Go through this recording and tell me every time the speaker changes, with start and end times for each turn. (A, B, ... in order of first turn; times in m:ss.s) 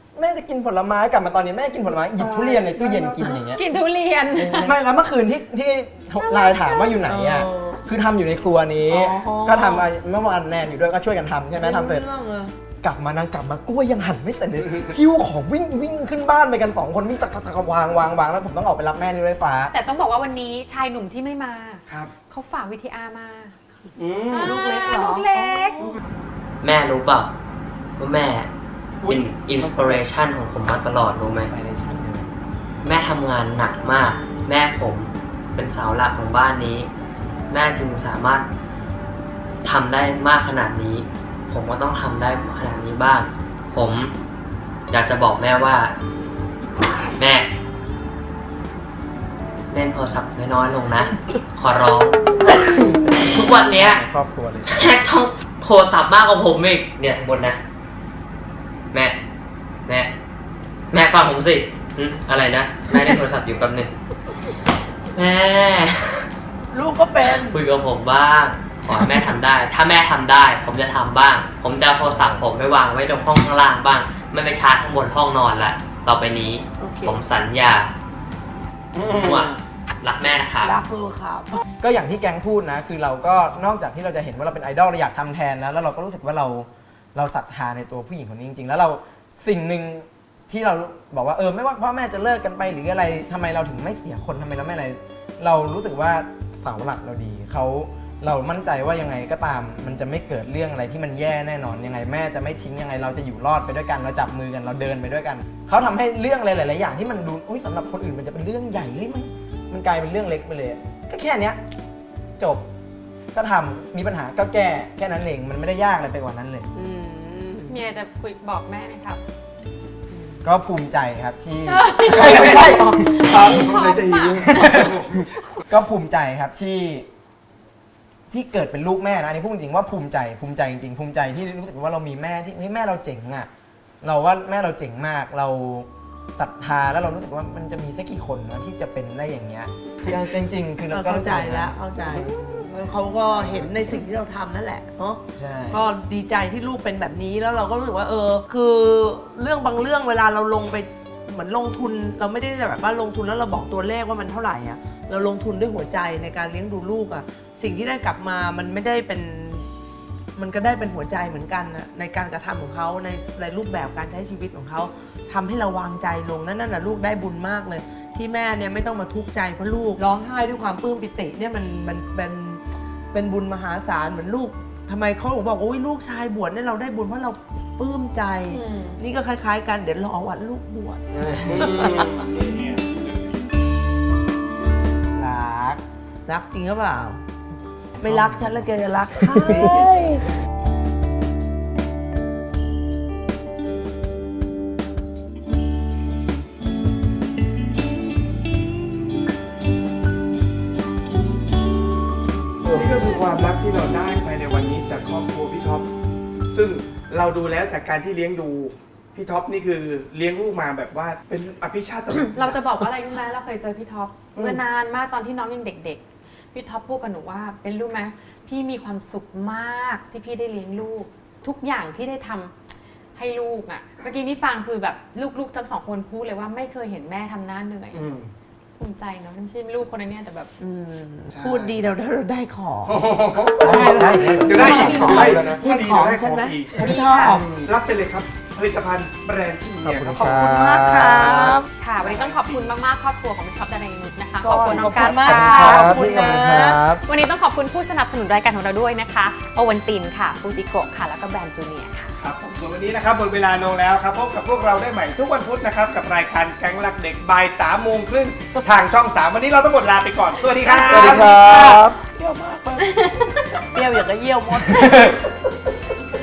0:00.2-0:03.6 A
0:02.2-0:03.3 B
0:03.5-0:04.7 C
0:04.4-0:12.1 A
0:06.2-0:07.0 C
0:07.1-0:07.8 D
0:08.9-0:09.9 D
0:11.6-0:12.5 D
0:12.8-0:19.7 A
0:19.7-0:23.6 C
0:24.0-0:24.6 B
0:24.3-0:25.9 C
0:24.4-0:25.6 D
0:26.6-0:27.3 E
0:28.0-0:28.5 E
0:29.0-0:30.0 B
0:29.1-0:31.5 E
0:31.4-0:32.3 A
0:32.8-0:36.9 E
0:37.5-0:38.4 E
0:39.6-0:44.1 E
0:44.9-0:45.9 E
0:47.2-0:47.5 E
0:49.7-0:52.2 E
0:53.3-0:54.0 E
0:53.5-0:54.9 A
0:54.7-0:57.6 E
1:00.9-1:03.9 E
1:05.2-1:06.3 E
1:06.7-1:07.6 D
1:07.4-1:17.9 E
1:12.1-1:12.4 A
1:16.8-1:17.2 D
1:19.0-1:19.6 B
1:19.1-1:20.8 E
1:20.6-1:21.6 D
1:21.8-1:51.6 A
1:52.4-1:52.7 A
1:53.3-1:56.7 A
1:56.7-1:57.8 D
1:57.7-1:59.2 C
2:00.4-2:03.1 A
2:01.7-2:04.6 C
2:02.1-2:05.2 B
2:04.4-2:05.1 A
2:05.7-2:07.1 A
2:08.3-2:13.5 A
2:14.0-2:22.6 A
2:20.9-2:39.7 D
2:23.3-2:24.0 A
2:25.4-2:25.8 A
2:40.4-3:01.0 D
2:58.5-2:59.0 C
3:01.1-3:02.2 A
3:01.5-3:03.3 B
3:01.6-3:02.0 D
3:05.2-3:05.8 A
3:06.3-3:07.2 D
3:08.0-3:10.2 D
3:08.0-3:08.6 A
3:09.3-3:09.8 A
3:22.6-3:25.9 B
3:26.5-3:32.9 B
3:32.3-3:36.0 C
3:34.4-3:34.6 B
3:36.5-3:42.5 C
3:43.2-3:48.0 C
3:47.9-3:48.3 B
3:48.8-3:50.5 C
3:50.6-3:53.0 D
3:51.3-3:51.8 B
3:52.9-4:00.3 B
3:53.6-3:57.5 D
3:53.6-3:55.7 A
3:54.5-3:55.4 C
3:56.8-3:57.4 C
3:59.8-4:01.6 A
4:00.1-4:01.7 D
4:01.3-4:02.8 B
4:01.7-4:06.0 C
4:04.4-4:06.8 D
4:04.6-4:05.2 B
4:05.2-4:07.0 A
4:07.0-4:12.1 C
4:12.2-4:21.5 B
4:20.6-4:22.9 D
4:20.9-4:22.0 A
4:22.8-4:23.6 C
4:23.7-4:25.2 D
4:24.8-4:25.0 A